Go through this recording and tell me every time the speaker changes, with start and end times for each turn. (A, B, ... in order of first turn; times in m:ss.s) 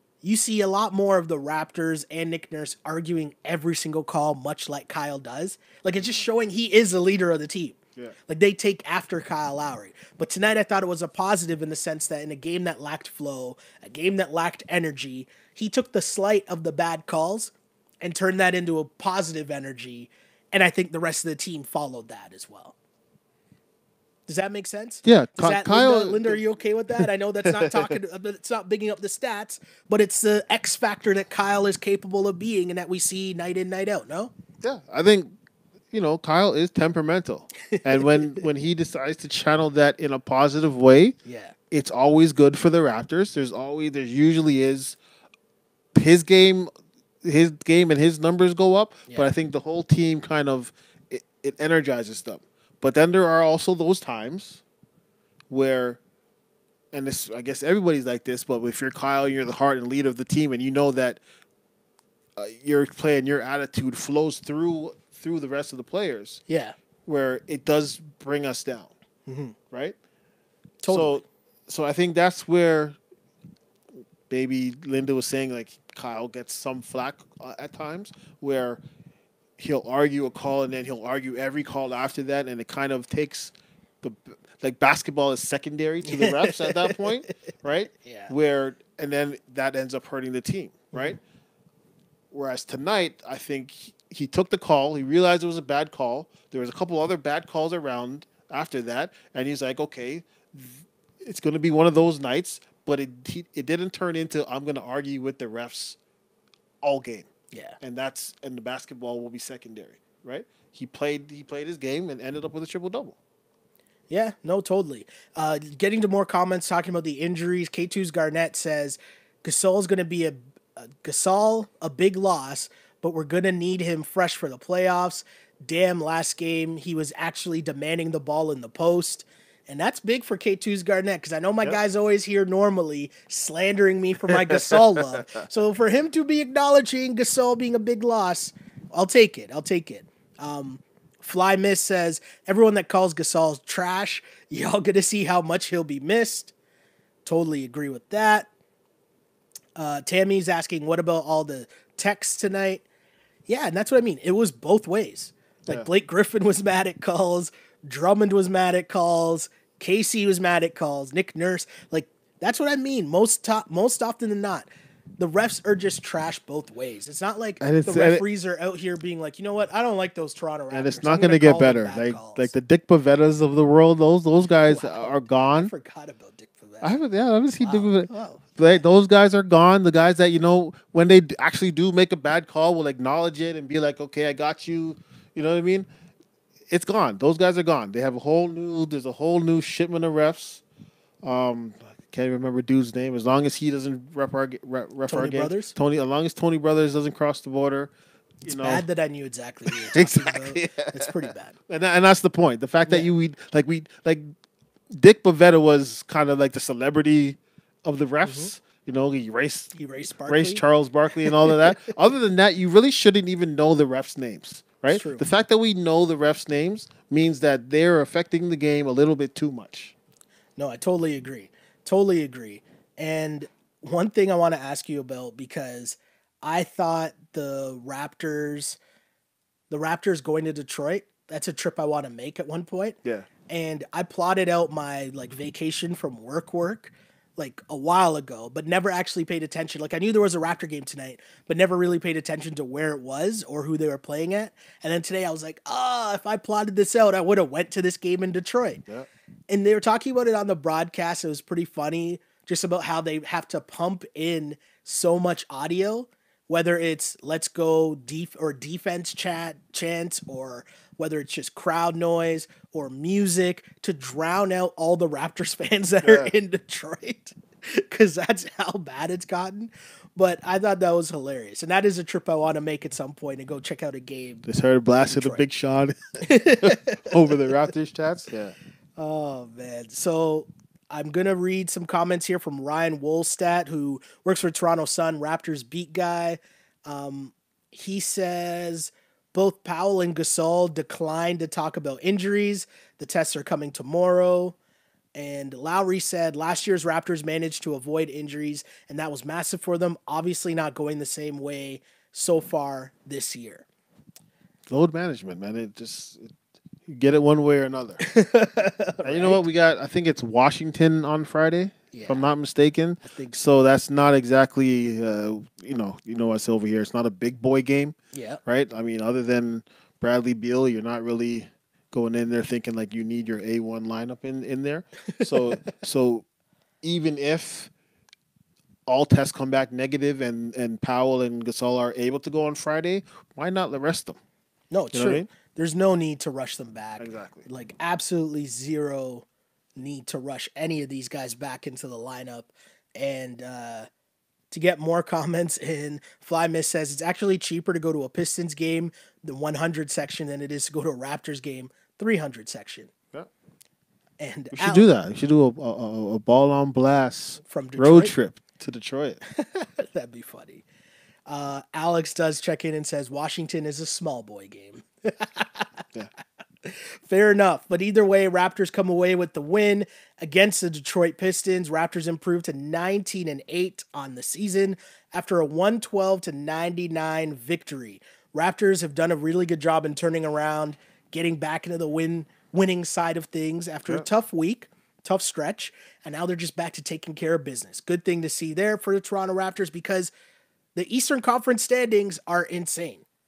0:00.2-0:22.8 A
0:24.3-0:34.3 A
0:25.0-0:26.4 B
0:26.9-0:27.9 B
0:34.6-0:35.4 B
0:35.9-0:41.2 B
0:37.7-0:38.4 A
0:41.2-0:41.6 A
0:41.7-0:45.0 B
0:45.9-0:46.7 B
0:47.2-0:54.6 B
0:49.1-0:49.3 A
0:55.5-0:56.0 B
0:56.9-1:01.2 B
1:02.4-1:06.4 B
1:06.5-1:06.8 A
1:07.1-1:08.9 B
1:09.3-1:09.6 A
1:09.7-1:10.0 B
1:10.8-1:11.2 A
1:10.9-1:13.0 B
1:14.3-1:18.8 B
1:19.6-1:31.2 B
1:26.1-1:27.0 A
1:28.0-1:28.3 A
1:30.9-1:31.2 A
1:32.3-1:46.0 B
1:46.8-1:47.3 B
1:47.5-1:47.8 A
1:47.8-1:53.2 B
1:54.1-2:26.5 A
2:14.3-2:15.2 B
2:27.2-2:28.5 A
2:29.8-2:32.8 A
2:33.5-2:52.5 A
2:47.6-2:48.2 B
2:50.7-2:55.7 B
2:54.7-2:56.9 A
2:56.8-3:05.9 B
2:57.6-2:58.8 A
3:06.7-3:10.6 B
3:11.2-3:17.9 B
3:15.1-3:15.8 A
3:18.4-3:21.5 A
3:18.4-3:18.8 B
3:19.7-3:21.2 B
3:21.7-3:24.3 B
3:24.9-3:29.7 B
3:28.2-3:28.5 A
3:29.8-3:30.6 A
3:30.2-3:39.9 B
3:31.2-3:32.0 A
3:34.9-3:35.2 A
3:40.6-3:48.8 A
3:49.7-3:53.0 A
3:53.5-4:08.8 A
4:09.5-4:34.5 A
4:26.0-4:26.3 B
4:34.5-4:38.6 B
4:35.1-4:35.4 A
4:36.2-4:37.5 A
4:39.0-4:54.6 A
4:55.2-5:03.7 A
5:04.7-5:06.4 B
5:06.9-5:08.0 B
5:08.0-5:09.4 A
5:09.0-5:18.0 B
5:11.9-5:12.2 A
5:13.0-5:13.4 A
5:18.1-5:18.4 A
5:18.5-5:26.2 B
5:25.1-5:25.7 A
5:26.8-5:27.7 B
5:28.9-5:34.2 B
5:34.7-5:39.3 A
5:34.9-5:35.3 B
5:37.0-5:37.5 B
5:39.8-5:43.9 A
5:44.5-5:52.9 A
5:54.2-5:54.9 A
5:54.5-5:59.2 B
5:57.4-5:58.2 A
5:59.3-6:00.6 A
6:01.3-6:05.8 A
6:06.6-6:30.1 A
6:30.8-6:33.0 A